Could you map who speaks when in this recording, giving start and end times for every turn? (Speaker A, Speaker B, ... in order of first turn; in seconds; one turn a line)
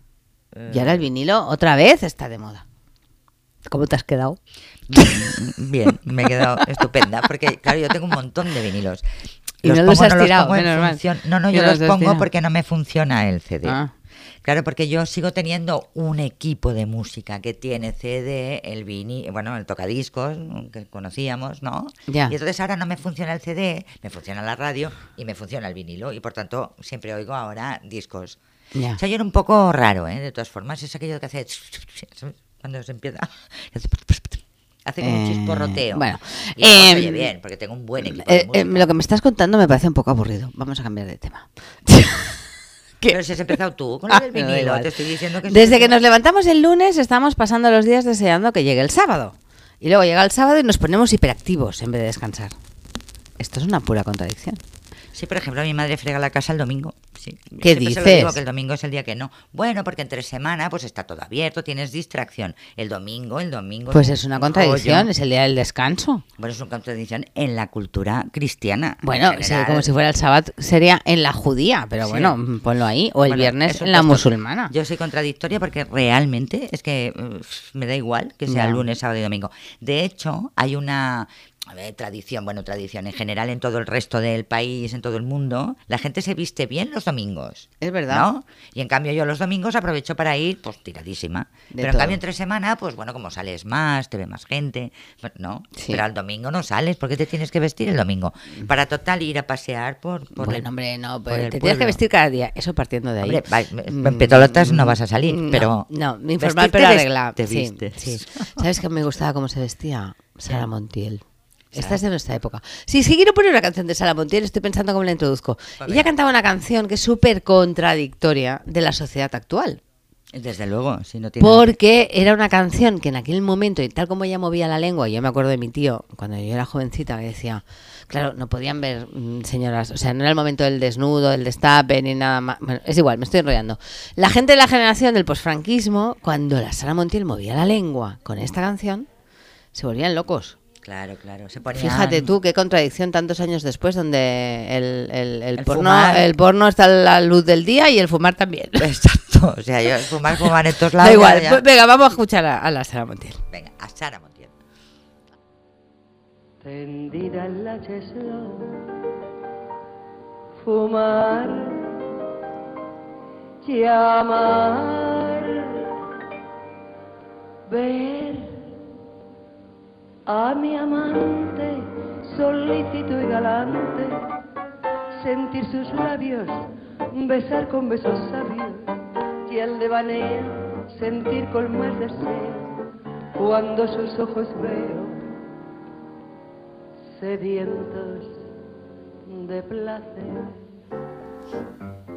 Speaker A: 0.5-1.1
Speaker B: 0.7-2.6
Speaker B: 3.7-4.4
Speaker A: 4.9-9.1
Speaker B: 4.9-5.4
Speaker B: 6.3-6.8
Speaker A: 9.6-13.8
Speaker B: 9.6-12.3
Speaker B: 13.6-13.9
Speaker A: 14.4-28.4
Speaker B: 22.1-22.4
Speaker B: 28.8-29.0
Speaker A: 29.0-36.1
Speaker B: 35.0-37.3
Speaker A: 36.6-38.9
Speaker B: 38.0-42.4
Speaker A: 43.1-46.0
Speaker B: 44.1-44.9
Speaker B: 45.5-52.5
Speaker B: 53.4-54.6
Speaker A: 55.1-65.1
Speaker B: 57.6-58.4
Speaker B: 63.9-66.2
Speaker A: 66.4-69.9
Speaker B: 69.0-74.7
Speaker A: 72.0-72.4
Speaker A: 73.2-100.7
Speaker B: 78.5-78.8
Speaker B: 87.8-88.3
Speaker B: 91.7-92.2
Speaker B: 95.8-96.0
Speaker B: 100.4-111.2
Speaker A: 101.3-102.0
Speaker A: 103.2-105.9
Speaker A: 106.4-108.7
Speaker B: 111.7-119.8
Speaker A: 111.7-112.0
Speaker A: 115.8-116.1
Speaker A: 120.3-121.8
Speaker B: 121.4-139.1
Speaker B: 139.7-140.6
Speaker A: 140.8-142.3
Speaker B: 141.7-148.9
Speaker A: 145.6-146.3
Speaker A: 148.8-151.6
Speaker B: 150.3-153.4
Speaker A: 153.5-154.5
Speaker C: 156.6-159.0
Speaker C: 160.6-162.1
Speaker C: 163.6-166.0
Speaker C: 167.7-168.7
Speaker C: 170.3-174.3
Speaker C: 175.2-182.8
Speaker C: 183.3-185.3
Speaker C: 187.2-188.4
Speaker C: 189.3-190.6